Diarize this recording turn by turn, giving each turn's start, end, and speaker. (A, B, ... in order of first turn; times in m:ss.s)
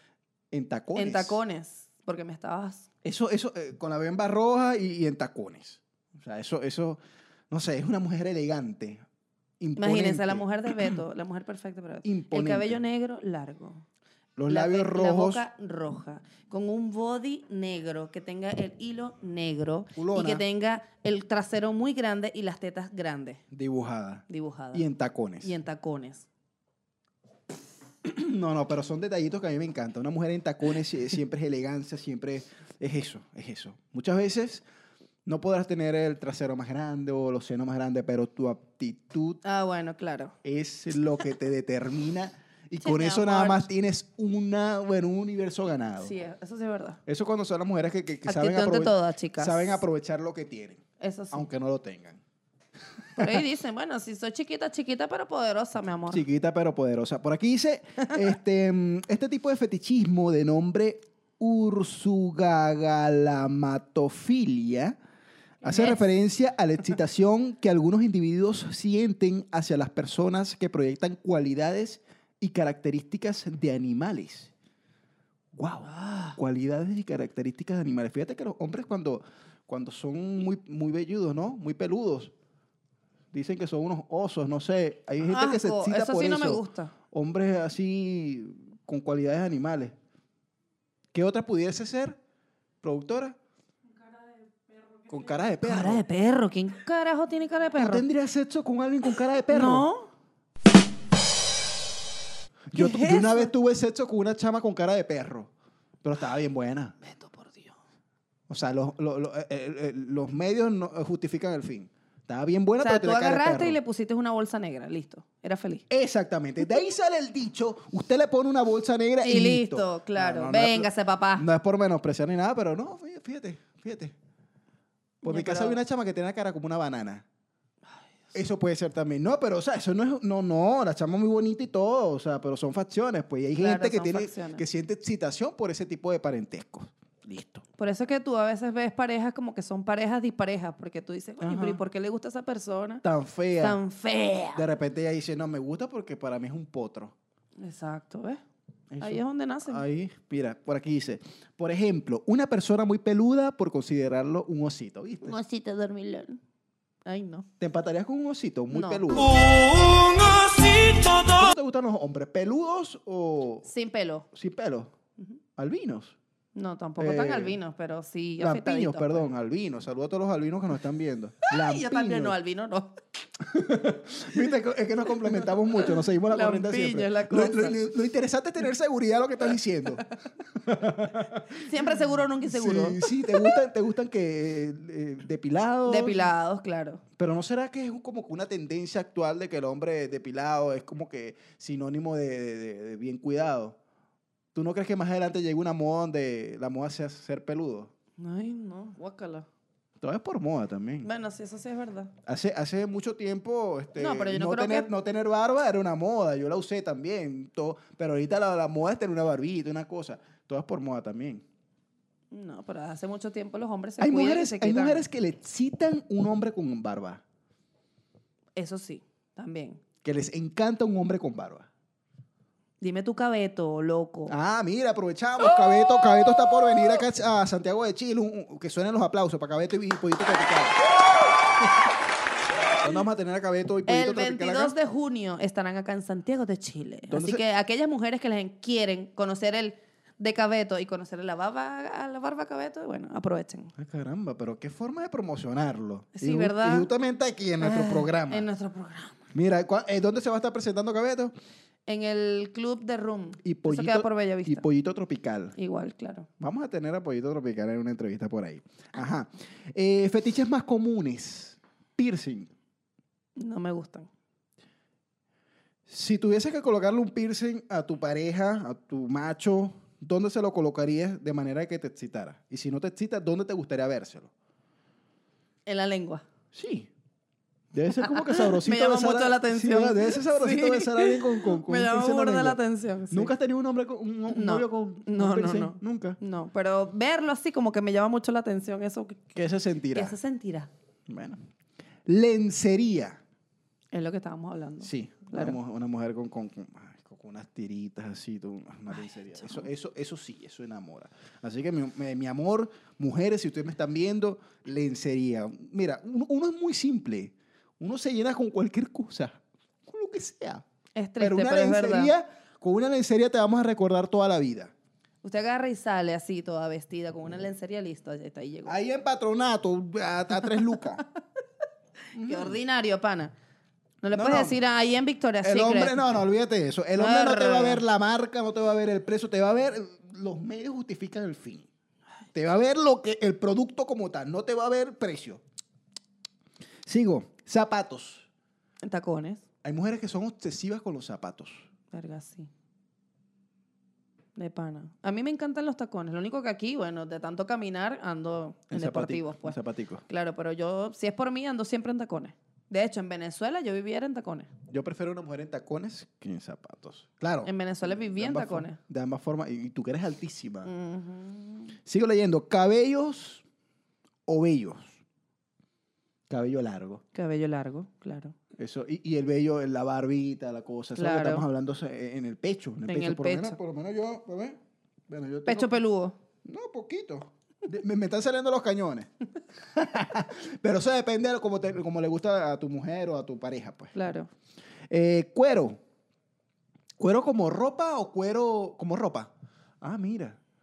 0:00.5-0:01.4 A
0:01.0-0:02.9 B
0:03.0-0:09.0 A
0:09.6-0:11.0 A
0:09.8-0:13.8 B
0:12.0-0:12.8 A
0:14.4-0:15.4 A
0:14.5-0:23.4 B
0:20.0-0:20.4 A
0:23.5-0:25.6 A
0:24.3-0:24.9 B
0:25.4-0:26.3 B
0:28.0-0:34.6 A
0:35.3-0:39.4 A
0:39.4-0:40.4 B
0:40.4-0:46.2 A
0:42.8-0:43.7 B
0:46.0-0:47.0 B
0:47.1-0:52.2 A
0:48.3-0:49.8 B
0:51.0-0:51.5 B
0:53.2-0:56.2 B
0:53.2-0:53.4 A
0:56.1-1:05.0 A
1:05.6-1:14.5 A
1:05.6-1:06.0 B
1:15.5-1:22.3 A
1:15.9-1:16.4 B
1:23.3-1:30.0 A
1:25.3-1:26.9 B
1:31.1-1:32.2 A
1:32.8-1:33.4 A
1:35.1-1:36.0 A
1:35.6-1:38.0 B
1:37.8-1:39.9 A
1:39.5-1:40.1 B
1:42.7-1:45.5 A
1:42.7-1:43.5 B
1:46.0-1:47.0 A
1:47.0-1:47.8 B
1:48.5-1:53.8 A
1:52.8-1:55.8 B
1:55.9-2:04.2 A
1:59.2-2:01.5 B
2:05.2-2:07.2 A
2:05.2-2:05.8 B
2:08.3-2:17.6 A
2:13.6-2:14.6 B
2:17.8-2:23.0 B
2:21.4-2:21.8 A
2:23.0-2:23.8 A
2:23.6-2:24.6 B
2:24.6-2:27.1 A
2:27.6-2:28.4 B
2:28.9-2:35.4 A
2:29.0-2:29.8 B
2:35.2-2:36.4 B
2:37.1-2:37.5 B
2:37.6-2:39.3 A
2:38.7-2:39.0 B
2:39.2-2:41.5 C
2:41.4-2:43.7 A
2:43.6-2:44.3 B
2:44.3-2:44.9 A
2:45.6-2:46.2 A
2:46.6-2:49.3 B
2:47.0-2:47.6 A
2:48.4-2:52.4 A
2:51.5-2:53.0 B
2:53.4-3:06.3 A
2:55.4-2:57.8 B
3:01.6-3:03.5 B
3:05.9-3:07.0 B
3:07.2-3:13.8 A
3:14.5-3:17.9 A
3:18.2-3:19.5 B
3:20.0-3:21.1 A
3:21.0-3:22.1 B
3:22.3-3:31.4 A
3:24.0-3:24.9 B
3:32.3-3:35.0 B
3:34.0-3:37.2 A
3:38.6-3:39.8 B
3:40.0-3:41.7 A
3:42.8-3:44.4 B
3:44.3-3:50.8 A
3:45.7-3:46.3 B
3:52.8-3:54.8 A
3:53.9-4:03.7 B
3:57.1-3:57.4 A
4:03.8-4:08.5 A
4:06.1-4:06.9 B
4:07.6-4:09.2 B
4:09.3-4:11.3 A
4:11.9-4:14.6 B
4:13.4-4:15.6 A
4:15.6-4:16.3 B
4:16.4-4:22.5 A
4:23.4-4:24.1 B
4:25.9-4:34.3 A
4:35.7-4:36.2 B
4:36.5-4:36.9 A
4:37.7-4:42.6 A
4:38.0-4:43.3 B
4:43.1-4:46.2 A
4:44.3-4:49.3 B
4:49.3-4:50.2 A
4:49.9-4:50.7 B
4:51.1-4:51.4 A
4:52.1-4:53.2 A
4:53.9-4:55.6 B
4:54.8-5:10.6 A
4:59.0-4:59.7 B
5:11.0-5:12.1 B
5:11.2-5:14.7 A
5:15.2-5:18.8 B
5:18.7-5:21.0 A
5:22.1-5:22.6 A
5:22.2-5:23.3 B
5:24.0-5:26.0 B
5:24.1-5:24.6 A
5:25.4-5:31.7 A
5:27.0-5:27.8 B
5:32.3-5:35.4 A
5:36.9-5:38.3 A
5:38.8-5:39.4 B
5:39.6-5:41.7 A
5:41.9-5:42.5 B
5:44.4-5:54.5 B
5:48.7-5:50.0 A
5:54.7-6:00.7 A
5:57.4-5:58.8 B
6:00.6-6:01.7 B
6:01.9-6:03.4 A
6:04.3-6:05.0 A
6:06.3-6:07.0 A
6:07.1-6:08.4 B
6:08.6-6:15.7 A
6:11.0-6:11.4 B
6:12.9-6:13.6 B
6:15.5-6:16.2 B
6:16.4-6:19.1 A
6:19.7-6:24.0 A
6:24.0-6:24.3 B
6:24.9-6:25.8 A
6:27.0-6:30.4 A